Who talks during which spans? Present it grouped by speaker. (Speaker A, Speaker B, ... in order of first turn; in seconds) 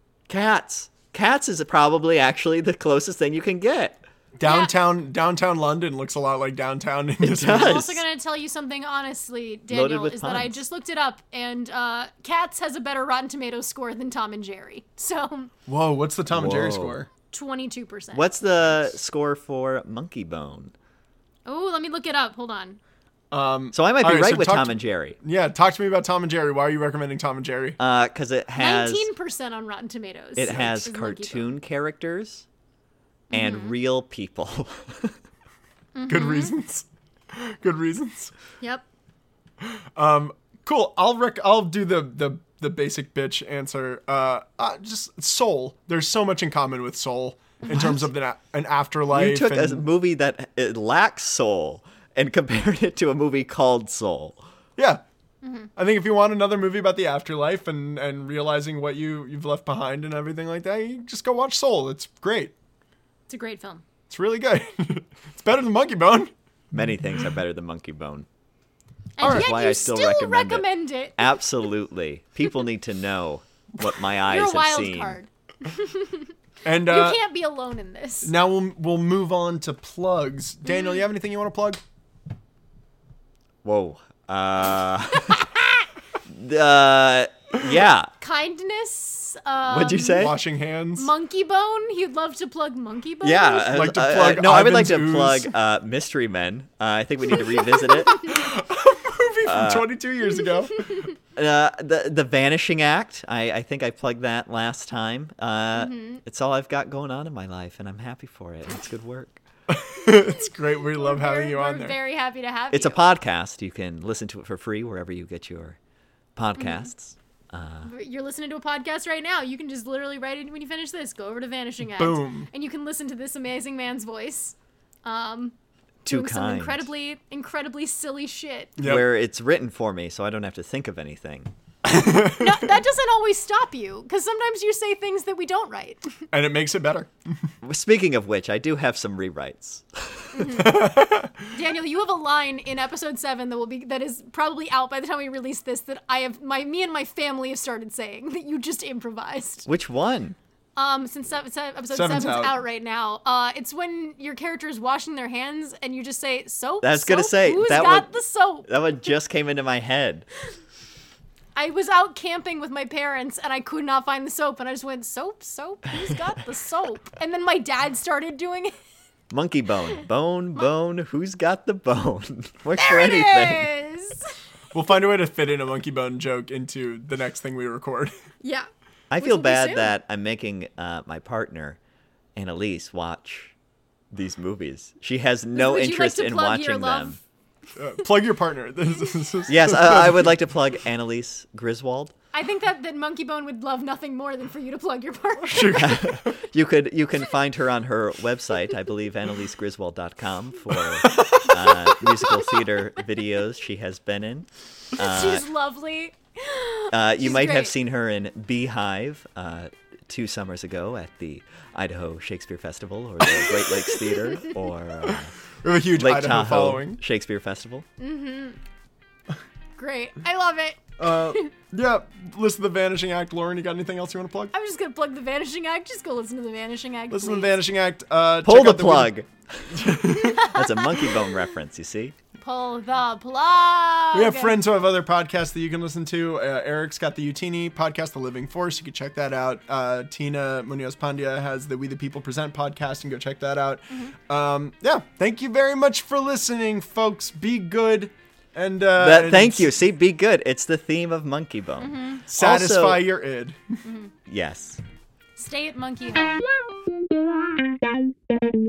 Speaker A: 0.3-4.0, 7.2-8.0, 9.7-10.6, 16.3-16.9, 18.1-20.7, 23.7-25.2, 27.8-29.1, 30.4-32.5, 33.3-35.2, 49.1-54.4, 66.7-68.3, 69.2-70.7, 71.2-75.2, 83.6-85.7, 86.3-88.1, 89.7-90.3, 93.2-98.2, 99.4-99.9, 101.3-109.4, 112.7-115.8, 116.3-117.9, 126.0-126.8, 128.8-131.5, 137.6-140.6, 149.7-150.4, 156.8-160.3, 169.3-173.7, 179.1-181.8, 182.3-183.6, 184.1-187.2, 189.5-192.1, 195.7-205.4, 206.9-215.3, 215.9-217.8, 228.4-232.2, 249.0-253.1, 254.3-254.8
Speaker B: 4.4-7.8, 15.7-17.1, 23.3-27.8, 36.1-38.3, 39.6-49.9, 54.8-55.0, 55.8-62.5, 64.1-66.3, 69.2-69.5, 76.6-77.2, 78.2-81.8, 90.1-91.1, 93.7-95.5, 98.2-101.1, 109.7-112.0, 122.0-122.5, 128.8-129.1, 131.8-132.7, 136.3-137.1, 140.6-141.5, 151.9-152.6, 174.7-178.1, 187.8-190.3, 195.5-196.2, 201.1-201.6, 215.1-217.0, 221.0-224.5, 227.1-229.1, 229.7-230.3, 234.1-249.7, 252.3-253.6
Speaker C: 4.4-4.7, 7.4-15.5, 17.3-18.4, 21.4-22.8, 28.6-31.6, 33.3-33.8, 35.9-36.5, 47.6-48.0, 55.4-55.7, 63.3-63.8, 69.2-71.4, 74.3-76.3, 76.8-78.3, 80.6-81.1, 88.2-90.3, 90.9-93.8, 98.0-98.3, 100.8-101.1, 105.8-106.2, 110.9-113.0, 117.8-125.5, 126.1-128.8, 132.2-136.1, 140.3-140.9, 141.5-149.7, 150.8-158.8, 161.6-168.7, 172.8-174.3, 179.2-179.9, 185.5-187.2, 192.3-196.2, 205.0-207.7, 213.6-214.6, 218.0-218.6, 219.8-221.5, 224.5-227.6, 230.0-231.3, 232.4-234.6, 251.8-252.2, 253.8-254.1, 255.3-256.4